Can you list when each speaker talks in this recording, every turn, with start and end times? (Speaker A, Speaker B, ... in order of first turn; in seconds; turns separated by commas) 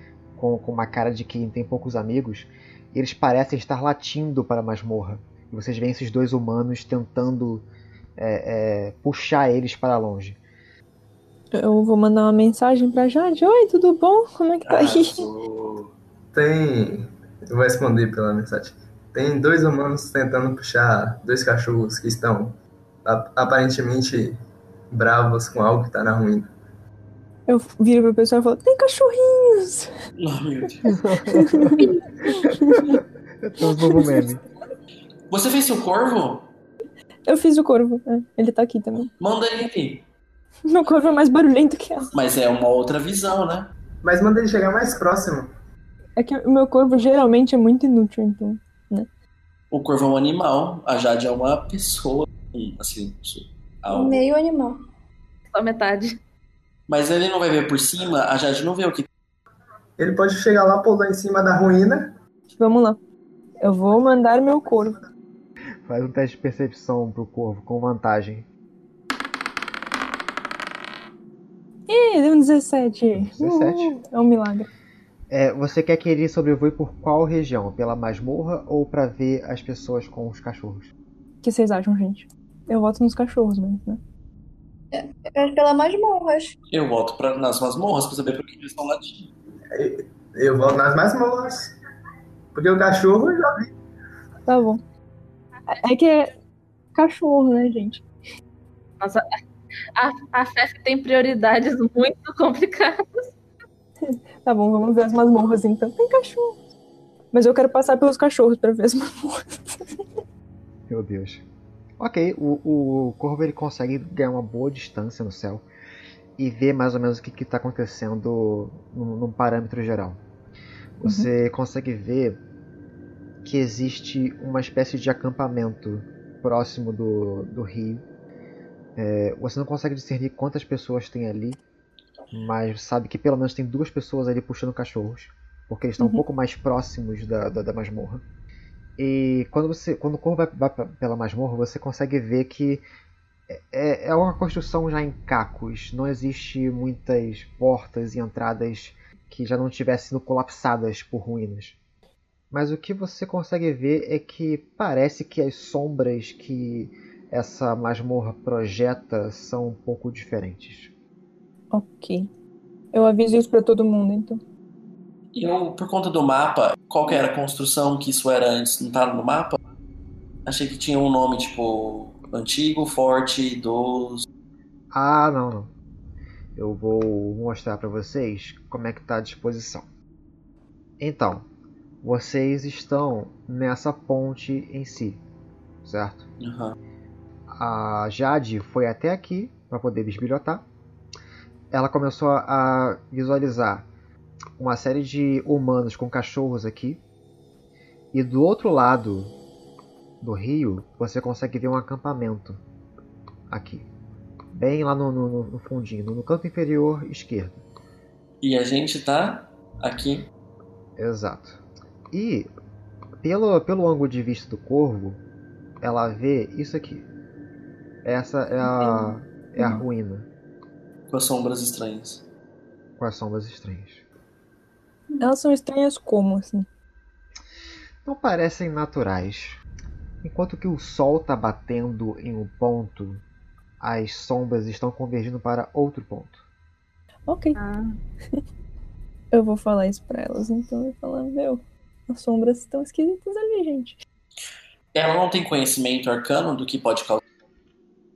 Speaker A: 0.3-7.7, Speaker A: 8.2-10.4, Speaker B: 11.5-15.2, Speaker C: 14.6-15.9, Speaker D: 16.3-24.4, Speaker D: 24.9-26.5, Speaker B: 27.5-29.9, Speaker C: 30.1-31.0, Speaker A: 31.0-31.9, Speaker B: 31.2-33.0, Speaker A: 33.4-34.4, Speaker B: 33.8-34.2, Speaker C: 35.3-36.5, Speaker B: 37.2-39.1, Speaker C: 39.2-40.0, Speaker B: 40.6-42.1, Speaker C: 42.1-43.7, Speaker D: 44.0-45.5, Speaker B: 46.2-49.1, Speaker C: 49.7-54.2, Speaker E: 53.9-54.8, Speaker F: 55.5-56.2, Speaker C: 56.9-59.1, Speaker D: 60.0-62.1, Speaker B: 62.5-63.0, Speaker B: 63.6-65.0, Speaker A: 65.8-68.5, Speaker B: 71.9-74.7, Speaker A: 73.2-74.0, Speaker A: 75.3-80.9, Speaker B: 81.4-84.0, Speaker E: 84.9-86.5, Speaker C: 86.7-89.3, Speaker D: 89.7-91.7, Speaker D: 92.5-93.7, Speaker B: 94.5-94.8, Speaker B: 95.7-96.3, Speaker B: 96.9-98.0, Speaker F: 99.0-99.2, Speaker F: 100.0-103.2, Speaker B: 104.0-106.5, Speaker B: 107.3-109.8, Speaker A: 110.9-111.4, Speaker A: 112.0-115.6, Speaker A: 116.4-120.2, Speaker A: 121.0-122.4, Speaker A: 123.4-128.0, Speaker A: 128.9-131.6, Speaker A: 132.3-138.2, Speaker A: 139.0-142.8, Speaker A: 143.5-151.8, Speaker A: 152.5-160.9, Speaker B: 161.7-162.3, Speaker B: 162.9-164.4, Speaker C: 165.3-169.6, Speaker C: 170.4-174.2, Speaker A: 174.9-175.7, Speaker A: 176.5-179.9, Speaker A: 181.0-181.5, Speaker A: 182.0-185.2, Speaker A: 185.8-186.3, Speaker C: 186.4-186.8, Speaker A: 187.5-190.7, Speaker A: 191.7-193.9, Speaker A: 194.6-197.0, Speaker A: 198.1-199.3, Speaker A: 200.2-202.6, Speaker A: 203.5-203.9, Speaker A: 204.5-207.6, Speaker C: 208.4-210.3, Speaker A: 211.0-211.6, Speaker A: 212.1-212.5, Speaker A: 213.2-215.2, Speaker A: 215.8-217.1, Speaker A: 218.0-220.3, Speaker C: 221.1-222.2, Speaker A: 223.0-224.0, Speaker B: 225.2-226.7, Speaker A: 228.0-229.6, Speaker A: 230.2-233.2, Speaker A: 233.8-236.4, Speaker B: 237.3-237.6, Speaker F: 237.6-237.9, Speaker B: 239.3-243.9, Speaker C: 244.9-247.2